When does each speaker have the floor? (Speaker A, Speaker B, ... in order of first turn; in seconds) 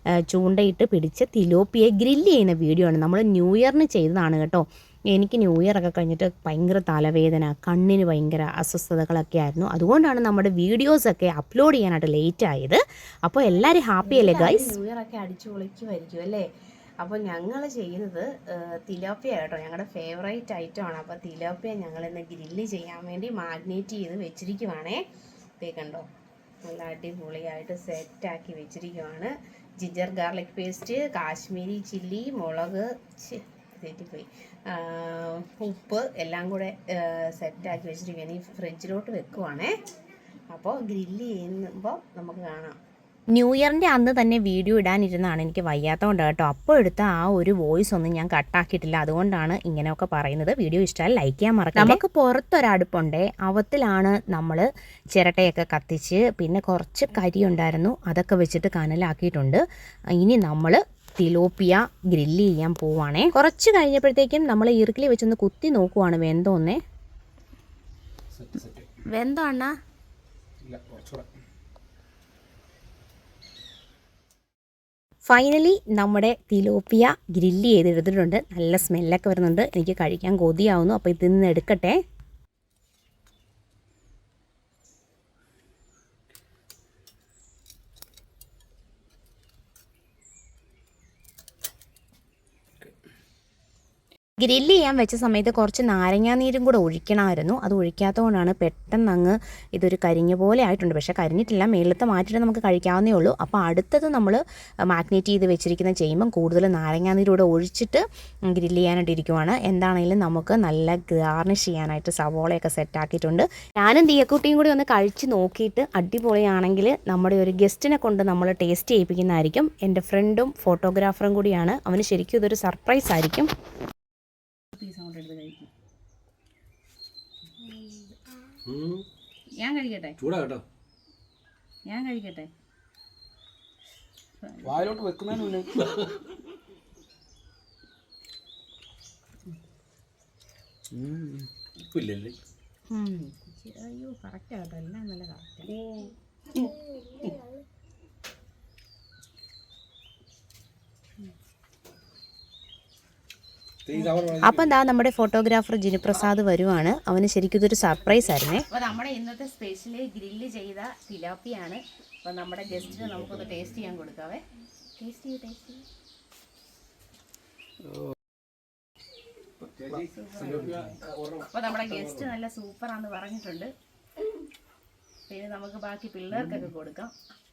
Speaker A: 0.3-14.8, 43.3-59.6, 60.2-66.8, 69.1-69.8, 75.3-82.0, 94.4-123.5, 143.0-143.2, 154.4-158.7
Speaker B: 14.0-16.5, 17.0-25.0, 25.6-26.1, 26.6-39.8, 40.5-42.8, 124.8-125.7, 127.6-128.2, 129.6-130.2, 131.9-132.5, 134.4-134.8, 143.2-146.8, 158.7-164.4, 165.0-165.8, 170.1-171.0, 171.5-173.7, 175.3-177.1
Speaker C: 68.3-68.9, 70.6-71.3, 128.7-129.1, 130.2-130.6, 134.6-136.1, 140.9-142.4, 153.9-154.7, 162.8-163.6, 169.6-172.3